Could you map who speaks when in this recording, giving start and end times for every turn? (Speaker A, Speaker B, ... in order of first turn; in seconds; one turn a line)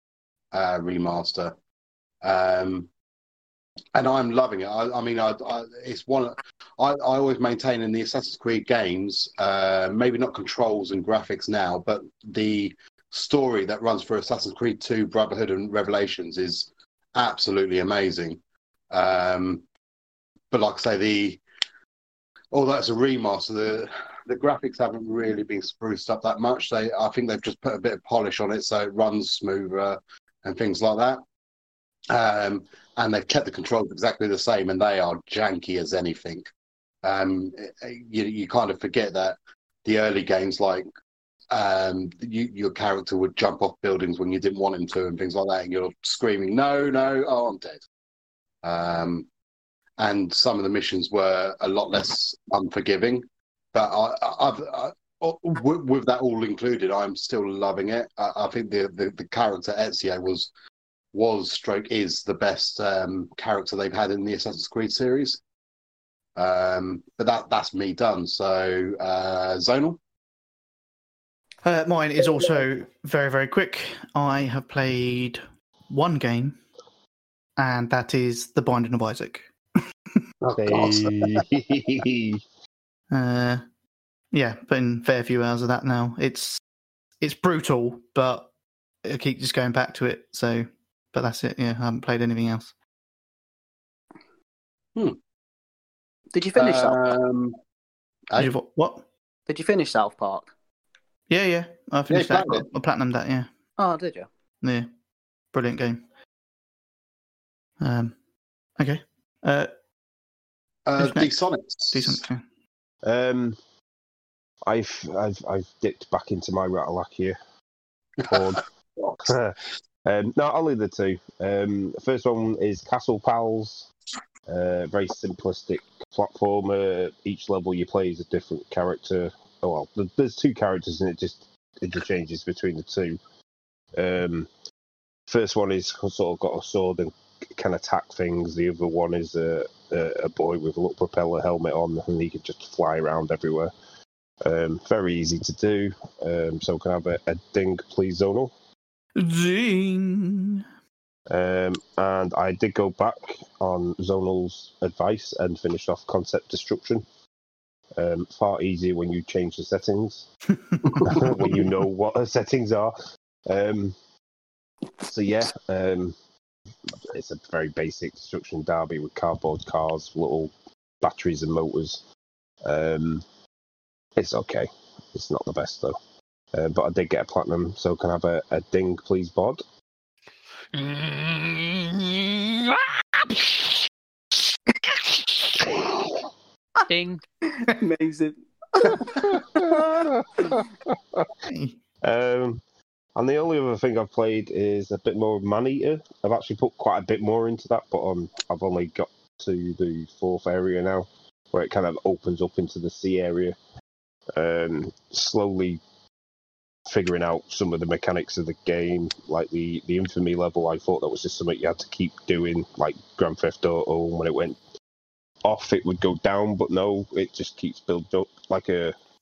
Speaker A: 0.5-1.5
Speaker A: 2.2-2.9
Speaker A: 3.9-19.6
Speaker A: 20.5-21.4
Speaker A: 22.5-31.2
Speaker A: 32.1-36.5
Speaker A: 37.0-40.9
Speaker A: 41.5-47.8
Speaker A: 48.6-49.3
Speaker A: 50.0-60.5
Speaker A: 61.1-65.4
Speaker A: 66.3-70.0
Speaker B: 71.6-76.6
Speaker B: 77.6-79.5
Speaker A: 80.4-81.4
Speaker C: 80.5-82.4
Speaker B: 83.1-83.6
Speaker B: 84.3-86.6
Speaker B: 87.2-88.5
Speaker B: 89.0-92.7
Speaker D: 96.3-97.0
Speaker A: 96.5-97.6
Speaker B: 98.4-99.0
Speaker D: 99.5-100.5
Speaker B: 101.3-103.5
Speaker A: 102.1-102.7
Speaker D: 103.8-104.3
Speaker B: 104.6-104.9
Speaker B: 105.5-106.0
Speaker B: 107.8-108.2
Speaker B: 108.8-109.7
Speaker A: 110.8-112.2
Speaker B: 111.0-112.4
Speaker C: 113.0-113.6
Speaker C: 114.6-117.4
Speaker A: 118.2-119.1
Speaker C: 118.2-118.6
Speaker C: 119.2-123.9
Speaker C: 124.5-133.2
Speaker C: 134.0-134.5
Speaker C: 135.3-143.7
Speaker C: 144.4-148.5
Speaker B: 149.2-150.6
Speaker C: 151.3-157.0
Speaker C: 157.9-160.3
Speaker B: 160.6-161.5
Speaker A: 160.8-161.6
Speaker C: 161.0-162.9
Speaker C: 163.5-163.9
Speaker C: 165.1-166.1
Speaker C: 167.1-172.0
Speaker C: 172.6-173.2
Speaker C: 174.2-175.9
Speaker C: 176.5-179.6
Speaker E: 180.7-183.8
Speaker E: 184.8-185.7
Speaker E: 186.9-187.2
Speaker D: 187.5-189.2
Speaker C: 189.2-191.3
Speaker B: 191.5-191.8
Speaker C: 192.0-192.6
Speaker C: 193.1-203.6
Speaker C: 204.3-205.8
Speaker C: 206.9-214.6
Speaker C: 215.4-218.9